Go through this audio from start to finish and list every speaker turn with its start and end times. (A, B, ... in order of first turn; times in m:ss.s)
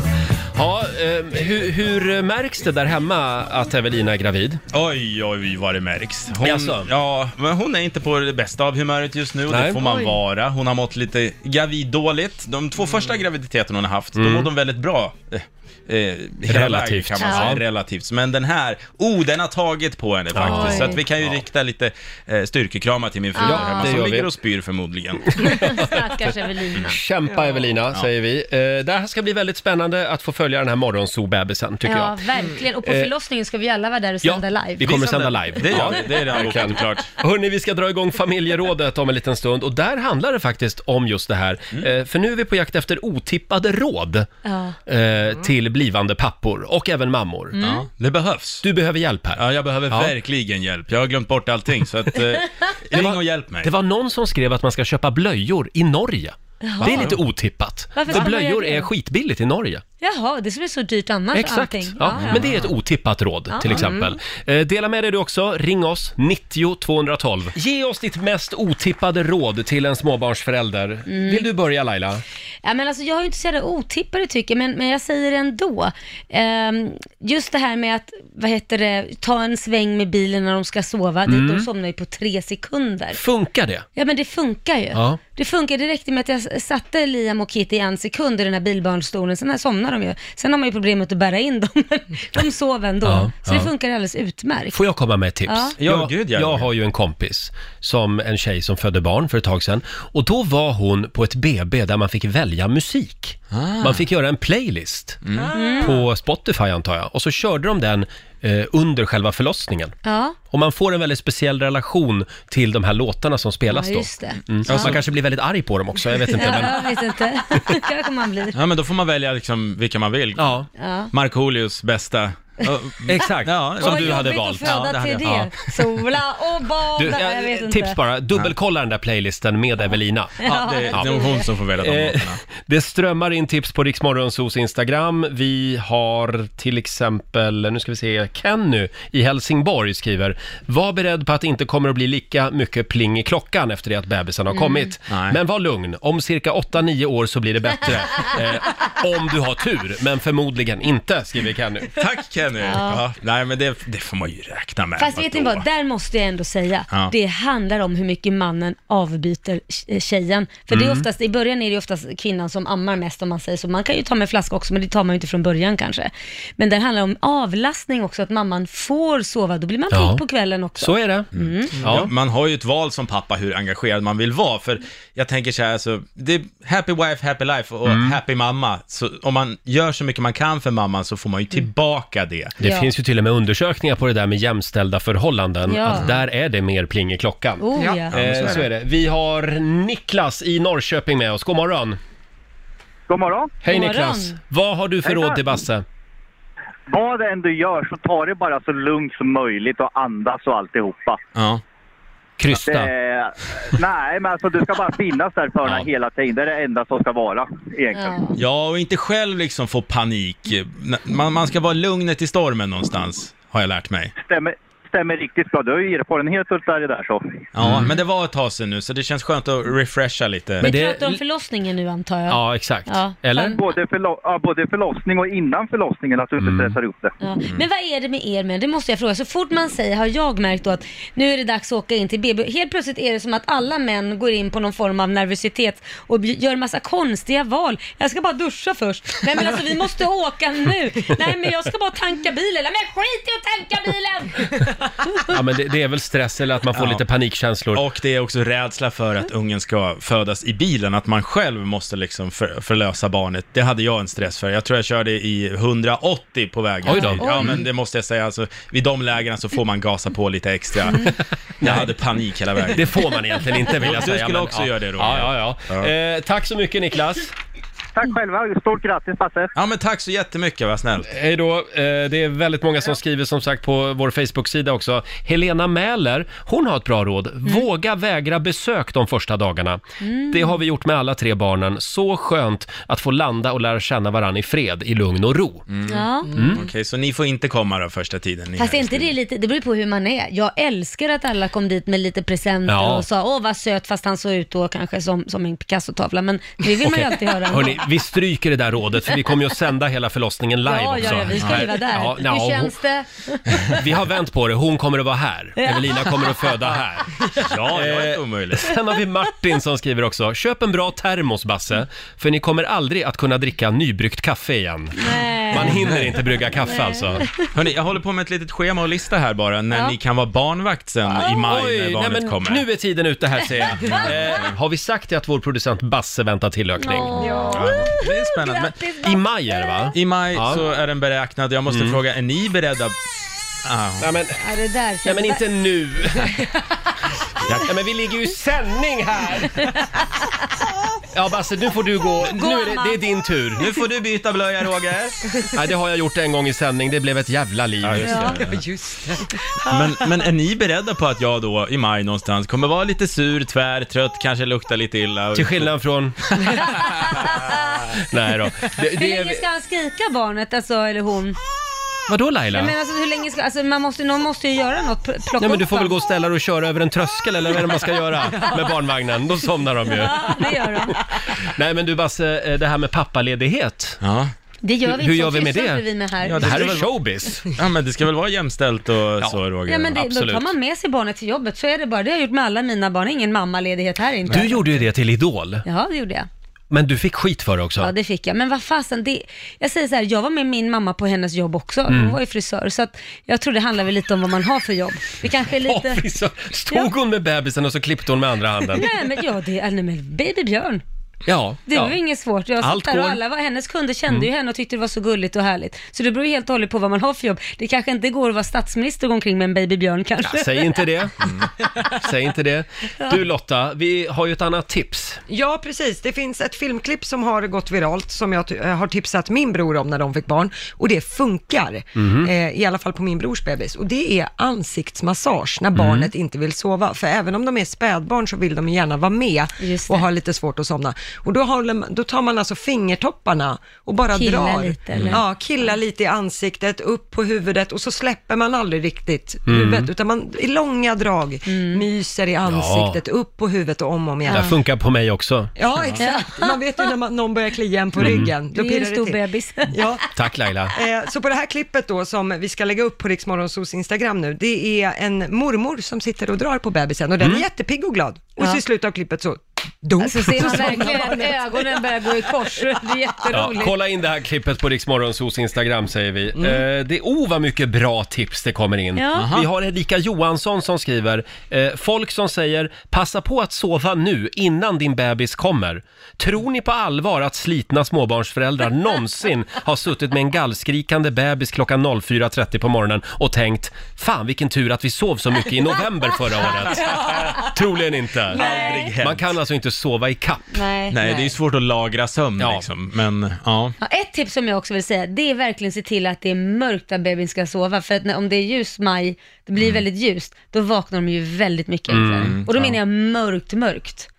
0:00.6-0:04.6 A
0:04.7-0:25.4 B
0:06.4-0:06.9 A
0:09.5-0:09.8 A
0:14.2-0:14.5 A
0:16.5-0:17.6 A
0:17.3-0:17.5 C
0:20.3-0:21.4 A
0:20.5-0:21.0 C
0:23.4-0:23.9 C
0:23.4-0:24.3 A
0:25.4-0:25.9 A
0:25.4-0:27.0 C
0:26.8-0:32.2 A
0:27.3-0:27.7 D
0:31.9-0:34.9 C
0:32.8-0:33.1 A
0:34.2-0:44.3 A
0:34.8-0:37.1 B
0:44.5-0:44.8 C
0:44.9-0:47.6 A
0:47.6-0:47.9 C
0:47.6-0:48.6 B
0:48.6-0:50.1 A
0:49.4-0:53.7 B
0:52.9-0:59.8 A
0:56.6-0:57.2 C
0:56.8-0:57.1 B
0:58.0-0:58.9 C
1:00.0-1:02.5 C
1:01.3-1:12.2 A
1:02.2-1:02.5 B
1:03.5-1:04.1 C
1:11.1-1:11.5 C
1:12.6-1:23.2 C
1:21.3-1:21.7 A
1:23.1-1:23.9 A
1:24.0-1:34.8 C
1:24.9-1:25.2 A
1:33.0-1:33.7 A
1:34.7-1:45.2 A
1:35.5-1:35.7 C
1:35.8-1:36.7 B
1:43.5-1:44.0 B
1:45.2-1:45.5 B
1:45.3-1:45.9 D
1:45.5-1:46.0 C
1:45.8-1:50.0 A
1:50.0-1:50.4 C
1:50.5-1:56.9 A
1:53.7-1:55.0 C
1:54.7-1:55.0 B
1:56.3-1:58.6 C
1:58.6-2:00.5 B
2:00.4-2:00.7 A
2:00.8-2:01.1 C
2:01.1-2:05.7 B
2:03.1-2:04.9 A
2:03.8-2:08.0 C
2:07.0-2:11.2 A
2:10.4-2:11.4 C
2:10.4-2:12.4 B
2:11.8-2:31.9 A
2:24.6-2:24.8 C
2:25.1-2:25.4 B
2:32.0-2:35.6 B
2:32.7-2:33.0 C
2:35.0-2:51.8 C
2:40.7-2:41.0 A
2:49.9-2:50.2 A
2:50.8-2:52.1 A
2:51.4-3:02.6 B
2:57.9-2:58.2 A
3:02.6-3:12.0 A
3:02.6-3:02.9 C
3:05.7-3:06.1 C
3:07.6-3:08.1 C
3:07.8-3:08.1 D
3:08.1-3:08.6 B
3:13.1-3:13.6 E
3:13.6-3:15.8 A
3:13.7-3:14.4 C
3:15.1-3:15.4 E
3:16.9-3:21.2 E
3:21.4-3:21.6 B
3:22.4-3:22.9 A
3:22.5-3:28.2 E
3:28.0-3:28.3 C
3:28.4-3:34.1 B
3:34.2-3:37.2 E
3:37.5-3:40.6 B
3:37.6-3:37.9 A
3:40.6-3:41.2 A
3:40.6-3:43.6 C
3:42.3-3:43.6 A
3:43.4-3:47.1 E
3:46.4-3:46.8 A
3:47.2-4:04.4 C
4:05.3-4:07.8 A
4:06.8-4:07.0 B
4:07.7-4:22.8 B
4:16.9-4:17.6 C
4:16.9-4:17.6 A
4:21.6-4:21.9 A
4:22.7-4:27.3 A
4:23.8-4:25.9 B
4:28.0-4:29.5 E
4:29.6-4:31.1 B
4:31.0-4:45.7 A
4:40.0-4:40.5 C
4:45.7-4:49.1 B
4:45.9-4:46.3 C
4:46.3-4:46.6 A
4:48.6-4:57.8 C
4:52.7-4:53.0 A
4:56.8-5:02.8 A
5:00.7-5:03.4 C
5:03.7-5:17.3 A
5:07.4-5:08.7 B
5:15.0-5:15.8 C
5:15.7-5:16.1 B
5:16.7-5:17.0 C
5:17.5-5:22.6 B
5:21.1-5:27.2 A
5:26.8-5:29.1 C
5:27.5-5:28.8 B
5:29.0-5:30.6 A
5:29.9-5:32.9 B
5:31.7-5:32.0 A
5:33.6-5:34.1 B
5:34.0-5:34.4 A
5:34.4-5:35.4 C
5:35.0-5:36.4 A
5:37.6-5:39.7 A
5:41.1-5:43.7 A
5:42.3-5:43.0 C
5:43.6-5:45.2 B
5:45.5-5:48.5 A
5:47.8-5:48.5 B
5:48.1-5:48.4 C
5:48.4-5:49.2 D
5:49.7-5:55.7 B
5:55.4-5:56.3 A
5:58.1-5:59.4 A
5:58.9-6:01.4 C
6:02.1-6:02.7 A
6:02.5-6:06.0 C
6:05.4-6:10.5 A
6:09.9-6:11.0 C
6:11.4-6:14.0 A
6:14.0-6:14.3 B
6:14.6-6:16.8 C
6:14.9-6:17.5 A
6:16.2-6:16.9 B
6:17.5-6:20.0 B
6:19.7-6:24.8 C
6:19.9-6:20.5 A
6:24.3-6:25.7 A
6:25.6-6:26.3 C
6:26.7-6:27.9 A
6:27.8-6:36.0 C
6:31.9-6:32.2 A
6:35.6-6:38.9 A
6:38.7-6:40.8 C
6:41.3-6:42.0 A
6:41.7-6:50.8 C
6:42.6-6:43.2 A
6:50.2-6:51.2 A
6:52.0-6:55.2 A
6:55.3-7:24.5 D
7:02.0-7:02.3 A
7:05.8-7:06.1 A
7:09.6-7:10.0 C
7:14.1-7:15.2 C
7:19.5-7:19.9 A
7:21.5-7:21.8 C
7:22.5-7:23.0 A
7:24.3-7:25.5 A
7:25.6-7:29.2 D
7:26.0-7:26.5 C
7:28.0-7:28.3 A
7:28.5-7:29.8 C
7:29.7-7:30.0 D
7:30.2-7:30.8 A
7:30.7-7:41.8 D
7:37.2-7:37.5 A
7:40.0-7:43.8 C
7:43.3-8:10.5 A
7:49.0-7:49.2 C
7:49.2-7:49.5 B
8:08.3-8:09.3 B
8:08.4-8:08.9 C
8:10.6-8:11.0 C
8:10.9-8:13.8 B
8:12.4-8:12.7 A
8:13.8-8:24.1 C
8:21.9-8:22.8 A